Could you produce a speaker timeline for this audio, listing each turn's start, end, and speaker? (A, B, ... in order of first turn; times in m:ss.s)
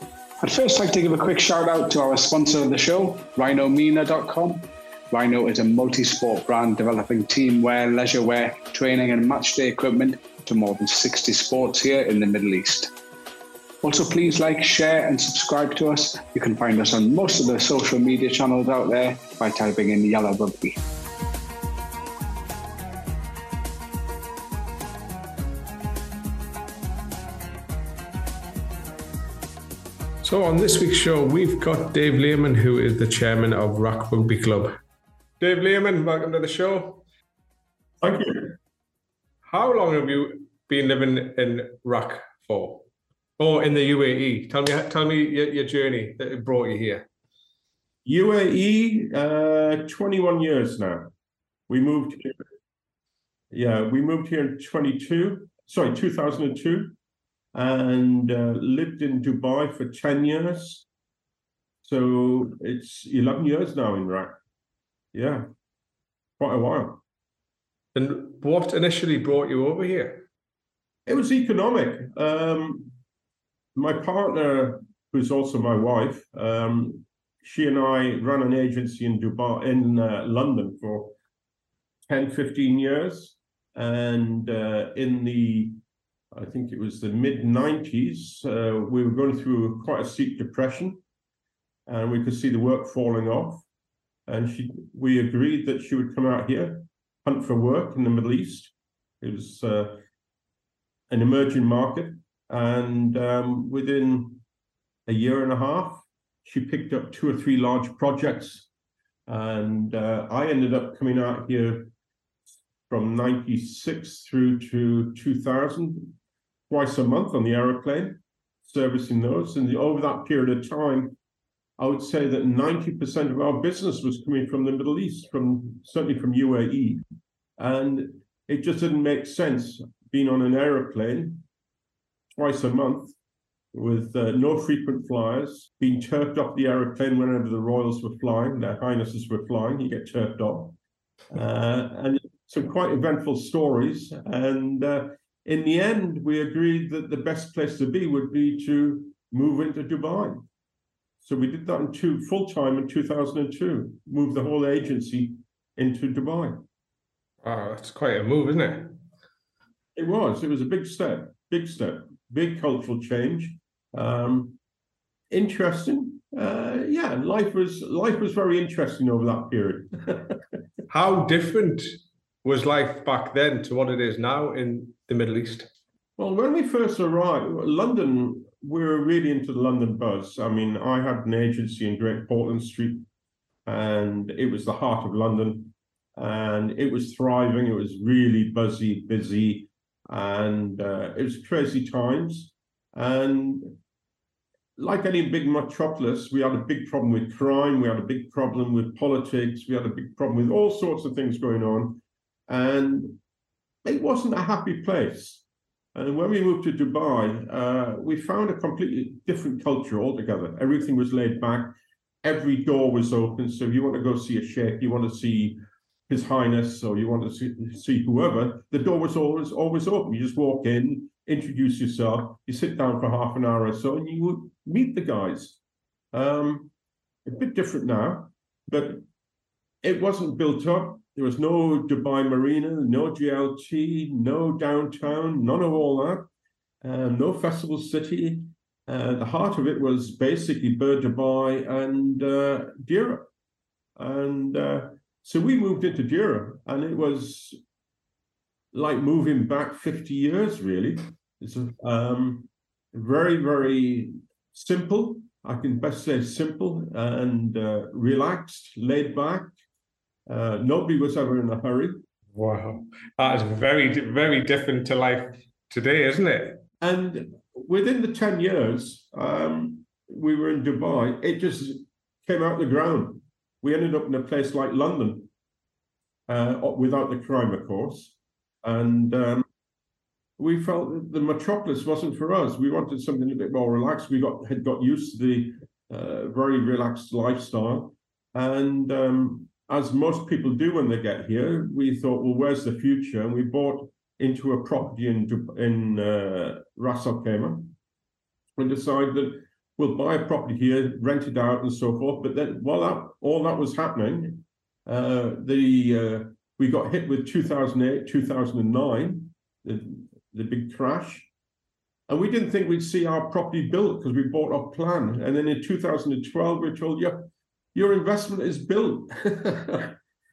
0:00.4-0:12.9 A
0:13.8-0:20.8 A
0:30.2-0:34.8 B
0:35.4-0:37.0 B
0:38.0-0:38.5 C
0:39.4-0:42.8 B
0:43.4-0:47.1 B
0:48.0-0:51.1 C
0:51.7-0:52.4 C
0:53.5-0:56.9 C
0:57.5-1:00.8 C
1:01.8-1:04.3 C
1:05.1-1:05.5 C
1:06.4-1:07.0 C
1:07.9-1:10.2 B
1:11.1-1:12.9 C
1:13.7-1:21.1 C
1:22.1-1:25.8 C
1:26.3-1:31.0 C
1:31.9-1:33.6 C
1:34.3-1:40.0 C
1:41.1-1:44.4 C
1:45.1-1:48.7 C
1:49.3-1:51.9 C
1:52.9-1:56.2 C
1:56.7-2:01.2 C
2:01.8-2:07.0 C
2:07.6-2:11.4 C
2:12.3-2:13.1 C
2:13.7-2:20.8 C
2:21.3-2:30.4 C
2:31.2-2:36.6 C
2:37.4-2:39.0 B
2:40.0-2:44.6 C
2:45.3-2:50.4 C
2:50.9-2:51.9 B
2:52.4-2:55.7 B
2:56.2-3:03.0 C
3:03.6-3:13.8 C
3:14.8-3:23.2 C
3:23.8-3:25.4 C
3:25.9-3:45.6 C
3:46.1-3:46.7 C
3:47.2-3:49.0 C
3:49.8-3:56.3 C
3:56.8-4:03.3 C
4:04.0-4:07.6 C
4:08.7-4:19.5 C
4:20.3-4:22.0 C
4:22.3-4:26.6 B
4:26.8-4:35.3 C
4:36.3-4:39.4 C
4:40.4-4:57.7 C
4:58.6-5:11.3 C
5:12.1-5:20.0 C